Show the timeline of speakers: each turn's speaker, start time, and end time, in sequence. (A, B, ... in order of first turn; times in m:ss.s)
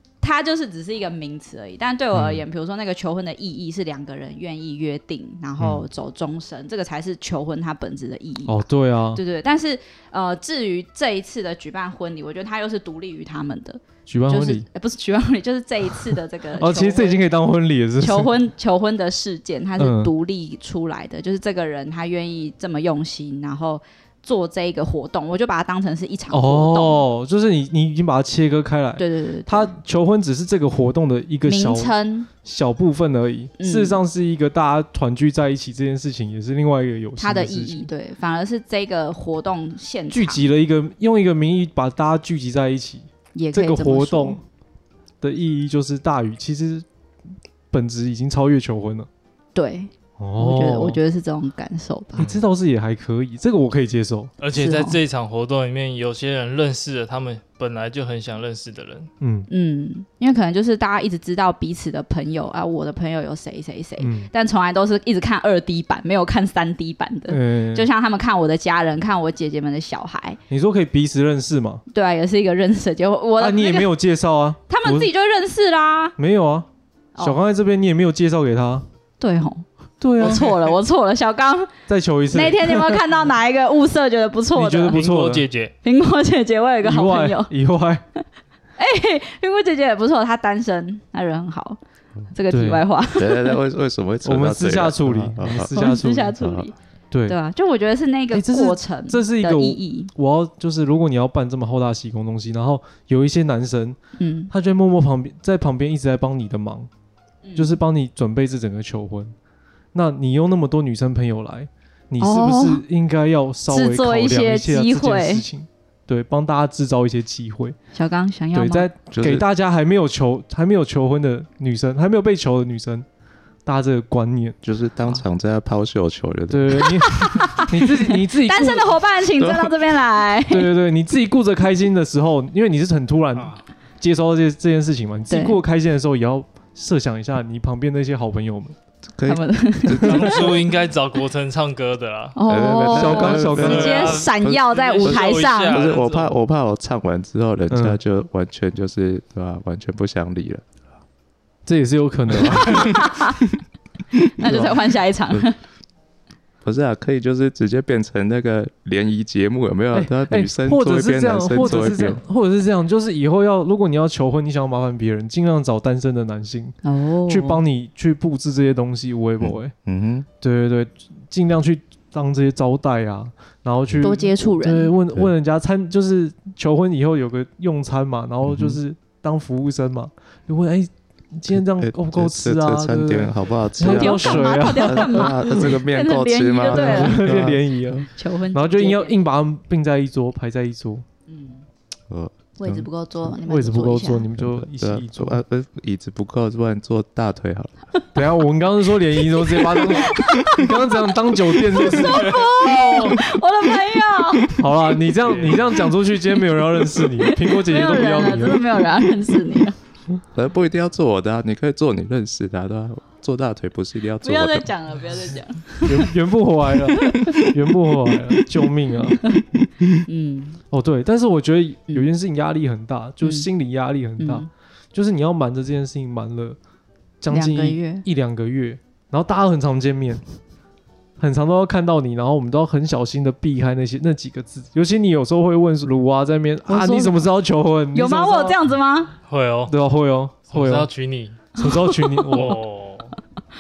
0:00.2-0:17.3 A
0:02.1-0:02.4 B
0:05.6-0:05.8 B
0:08.5-0:09.2 B
0:14.1-0:14.7 B
0:16.6-0:18.3 B
0:18.0-0:27.1 A
0:19.8-0:20.1 B
0:26.3-0:37.9 B
0:29.0-0:29.7 A
0:31.5-0:32.3 A
0:33.6-0:34.0 A
0:37.2-0:40.5 A
0:40.1-0:44.4 B
0:43.4-0:44.4 A
0:45.2-0:46.9 B
0:47.7-0:49.1 B
0:49.6-0:52.3 A
0:50.2-0:51.0 B
0:52.2-0:54.3 B
0:52.2-0:52.4 C
0:54.4-0:59.1 C
0:54.6-0:55.0 A
0:59.2-0:59.5 B
0:59.5-1:10.4 A
1:04.0-1:04.3 B
1:07.3-1:07.9 B
1:10.5-1:11.8 B
1:11.9-1:13.9 A
1:13.4-1:15.1 B
1:14.7-1:16.2 A
1:16.2-1:16.7 B
1:17.2-1:18.8 B
1:19.2-1:19.7 A
1:20.0-1:20.5 B
1:20.2-1:21.7 A
1:20.2-1:20.7 C
1:21.9-1:23.0 B
1:22.3-1:25.0 A
1:24.6-1:25.5 B
1:24.9-1:25.7 C
1:25.8-1:27.5 A
1:26.8-1:28.0 B
1:28.8-1:31.8 A
1:32.3-1:33.6 A
1:32.5-1:32.8 B
1:33.1-1:36.7 D
1:34.2-1:36.4 B
1:35.7-1:36.7 A
1:37.1-1:37.4 B
1:37.3-1:40.1 A
1:38.3-1:44.0 B
1:44.2-1:44.5 A
1:44.5-1:46.9 B
1:47.4-1:47.8 A
1:47.6-1:49.3 B
1:49.9-1:57.8 B
1:52.2-1:52.8 A
1:53.7-1:55.4 A
1:57.9-1:58.9 A
1:58.5-2:03.1 B
1:59.1-1:59.4 D
2:03.6-2:04.6 B
2:04.6-2:07.3 D
2:06.5-2:08.9 B
2:07.0-2:10.7 A
2:09.4-2:09.8 D
2:10.5-2:18.8 B
2:15.3-2:15.6 A
2:19.2-2:20.6 D
2:19.3-2:20.6 A
2:20.0-2:22.4 C
2:22.4-2:25.8 A
2:22.5-2:30.6 D
2:22.9-2:24.0 B
2:23.4-2:26.4 C
2:27.7-2:28.0 B
2:31.7-2:33.1 B
2:32.3-2:33.1 D
2:32.7-2:33.4 A
2:34.4-2:35.6 A
2:34.4-2:34.8 B
2:36.6-2:42.2 D
2:39.9-2:49.7 B
2:46.8-2:47.6 A
2:49.4-2:50.3 D
2:50.4-3:05.7 B
2:53.9-2:54.1 D
2:54.0-2:54.9 A
2:58.4-2:58.8 D
3:01.5-3:08.0 D
3:03.8-3:09.1 A
3:06.7-3:11.0 B
3:11.3-3:11.6 A
3:12.6-3:14.3 A
3:12.7-3:15.4 B
3:14.4-3:17.7 D
3:18.2-3:23.2 B
3:19.3-3:24.8 A
3:20.1-3:20.7 D
3:24.5-3:29.1 B
3:26.4-3:29.8 A
3:30.3-3:34.7 D
3:34.2-3:36.1 A
3:35.8-3:39.2 B
3:37.0-3:37.5 A
3:39.1-3:40.6 A
3:40.7-3:46.6 B
3:43.2-3:43.5 A
3:44.2-3:44.5 A
3:47.2-3:50.2 B
3:47.3-3:48.0 A
3:51.2-3:58.6 B
3:56.7-3:57.2 A
3:57.9-3:59.1 A
3:59.3-3:59.7 C
3:59.7-4:00.9 B
4:00.5-4:01.5 C
4:01.6-4:02.6 B
4:01.6-4:02.6 A
4:02.3-4:03.2 C